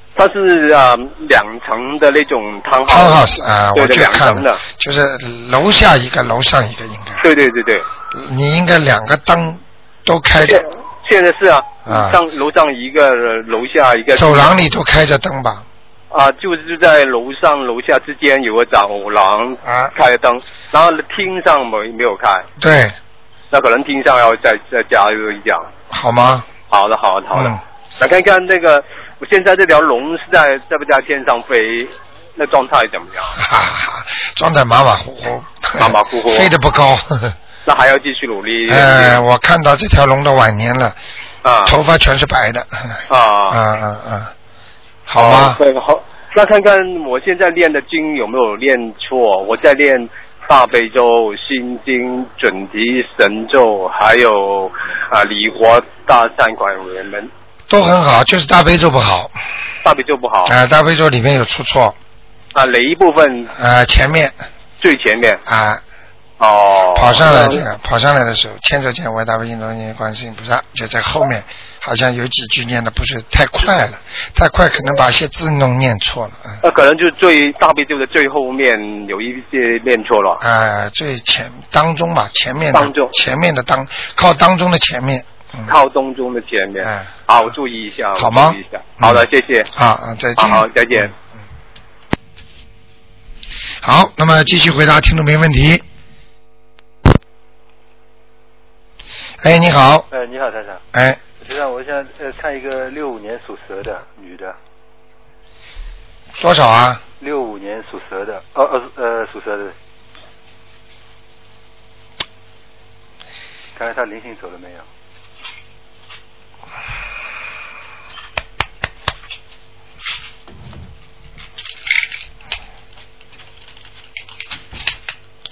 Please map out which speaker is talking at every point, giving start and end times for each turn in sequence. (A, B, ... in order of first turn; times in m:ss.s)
0:00.2-0:04.6 A
0:02.9-0:07.2 B
0:07.2-0:07.8 A
0:08.1-0:10.7 B
0:10.4-0:14.6 A
0:11.8-0:12.2 B
0:14.2-0:15.6 B
0:16.1-0:22.4 A
0:19.6-0:19.9 B
0:22.6-0:22.9 B
0:23.5-0:25.7 A
0:25.9-0:26.5 B
0:26.7-0:33.4 A
0:27.3-0:27.6 B
0:33.4-0:37.4 B
0:35.8-0:36.5 A
0:37.6-0:39.2 A
0:38.7-0:41.0 B
0:41.4-0:41.7 A
0:41.6-0:44.3 B
0:43.1-0:43.6 A
0:45.1-0:45.6 B
0:45.2-0:57.3 A
0:57.7-0:59.3 B
0:59.8-1:00.6 A
1:00.4-1:02.0 B
1:02.5-1:03.5 A
1:03.5-1:04.4 B
1:04.8-1:05.4 A
1:05.4-1:05.8 B
1:06.4-1:07.6 A
1:06.9-1:16.6 B
1:16.6-1:20.4 A
1:20.4-1:25.8 B
1:22.7-1:23.1 A
1:25.7-1:29.7 A
1:26.8-1:27.2 B
1:28.2-1:31.2 B
1:30.4-1:31.1 A
1:33.8-1:35.8 B
1:39.4-1:40.1 B
1:40.1-1:40.8 C
1:40.9-1:41.2 B
1:41.4-1:44.6 C
1:46.4-1:47.0 B
1:47.2-1:49.7 C
1:53.7-1:54.8 C